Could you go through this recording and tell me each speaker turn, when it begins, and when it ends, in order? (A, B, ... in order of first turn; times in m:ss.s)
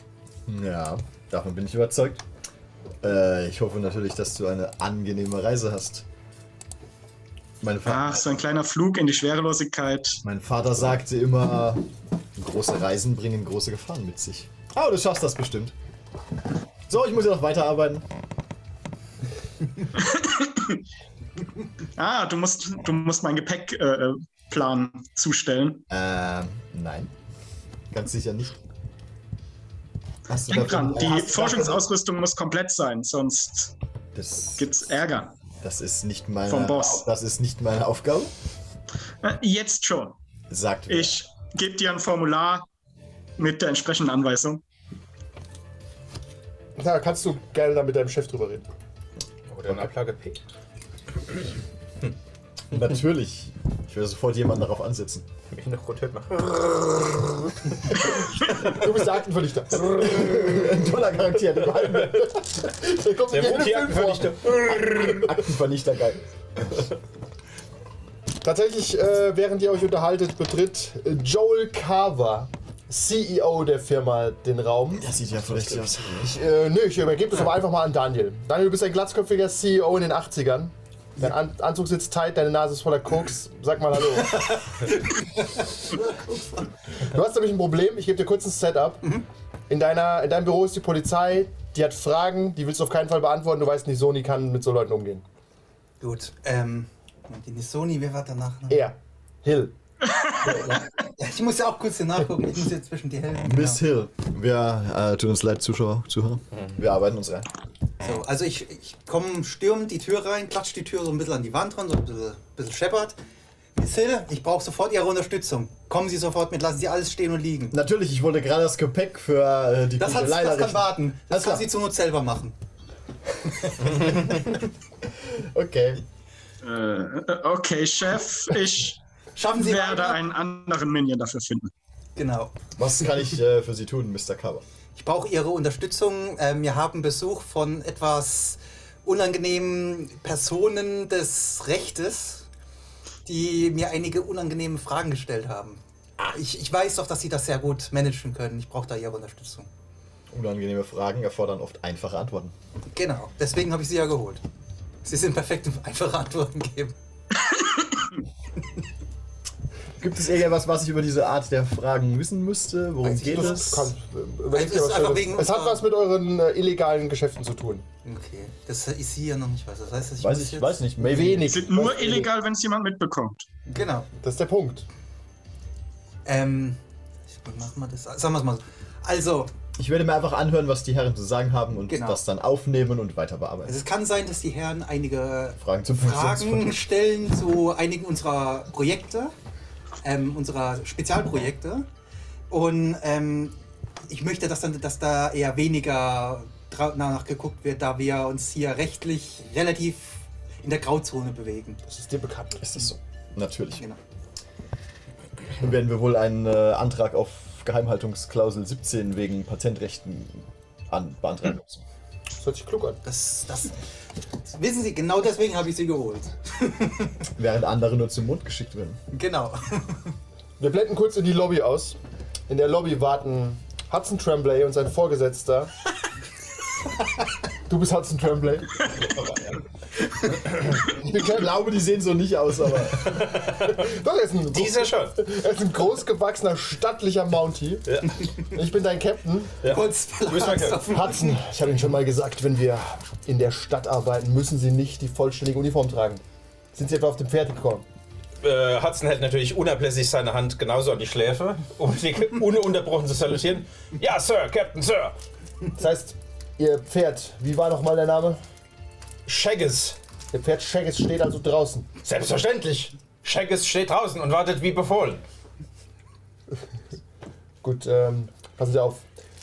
0:00.5-0:02.2 A
0:03.0-0:06.1 A
0:07.6-0:08.2 A
0:07.8-0:10.2 B
0:10.2-0:15.8 A
0:16.9-0:18.1 A
0:20.0-0:20.8 B
0:22.0-0:25.8 B
0:25.9-0:27.1 A
0:27.9-0:28.6 A
0:30.3-0:31.8 A
0:30.5-0:33.7 B
0:34.2-0:34.9 A
0:34.6-0:35.4 B
0:35.6-0:38.3 A
0:36.5-0:37.0 B
0:39.2-0:40.2 B
0:40.5-0:41.2 A
0:40.9-0:42.7 B
0:43.4-0:44.6 B
0:46.8-0:48.7 C
0:49.5-0:50.4 D
0:52.7-0:55.3 A
0:55.5-0:57.2 D
0:58.5-1:00.8 C
0:59.9-1:02.3 A
1:01.8-1:05.1 C
1:03.3-1:05.3 D
1:05.2-1:06.2 A
1:08.4-1:15.1 C
1:14.9-1:16.4 A
1:16.2-1:24.6 C
1:27.1-1:29.1 C
1:29.7-1:35.2 C
1:36.0-1:38.9 E
1:38.7-1:39.8 C
1:40.1-1:40.4 B
1:40.5-1:43.8 E
1:40.5-1:40.8 C
1:43.4-1:47.5 A
1:48.0-1:53.2 E
1:53.8-1:57.8 E
1:57.7-2:01.7 A
2:00.0-2:02.6 E
2:03.5-2:04.4 A
2:05.2-2:06.0 A
2:06.6-2:09.0 B
2:09.4-2:10.2 E
2:09.6-2:11.7 B
2:12.2-2:12.6 E
2:12.8-2:14.6 A
2:15.0-2:22.5 E
2:23.2-2:29.7 E
2:30.3-2:32.5 A
2:32.9-2:34.4 E
2:35.0-2:37.0 E
2:37.4-2:37.8 B
2:40.0-2:43.9 A
2:43.0-2:47.8 C
2:43.0-2:43.8 E
2:44.5-2:45.8 E
2:48.0-2:50.8 E
2:50.2-2:51.8 A
2:51.0-2:52.3 C
2:51.5-2:53.5 B
2:53.7-2:54.1 E
2:54.1-2:54.9 C
2:56.2-2:59.5 E
2:59.8-3:03.8 A
3:01.9-3:02.2 E
3:03.7-3:09.3 E
3:05.6-3:06.8 A
3:10.0-3:11.9 E
3:12.5-3:13.6 E
3:14.1-3:21.8 E
3:21.9-3:22.6 C
3:22.6-3:23.8 A
3:25.5-3:31.8 A
3:32.4-3:33.0 C
3:33.0-3:33.8 E
3:34.5-3:37.1 E
3:37.4-3:39.0 A
3:39.1-3:40.1 E
3:40.6-3:45.7 C
3:47.7-3:48.8 C
3:48.9-3:49.6 D
3:50.9-3:51.5 C
3:51.2-3:53.2 A
3:53.0-3:53.8 D
3:53.5-3:59.5 C
3:54.5-3:55.2 D
3:57.9-3:58.2 D
3:59.6-4:01.0 D
3:59.6-4:01.4 E
4:00.9-4:06.2 C
4:06.7-4:07.9 C
4:08.4-4:15.2 D
4:15.8-4:18.4 C
4:19.3-4:20.0 D
4:20.3-4:21.9 C
4:22.0-4:25.2 D
4:27.6-4:29.0 C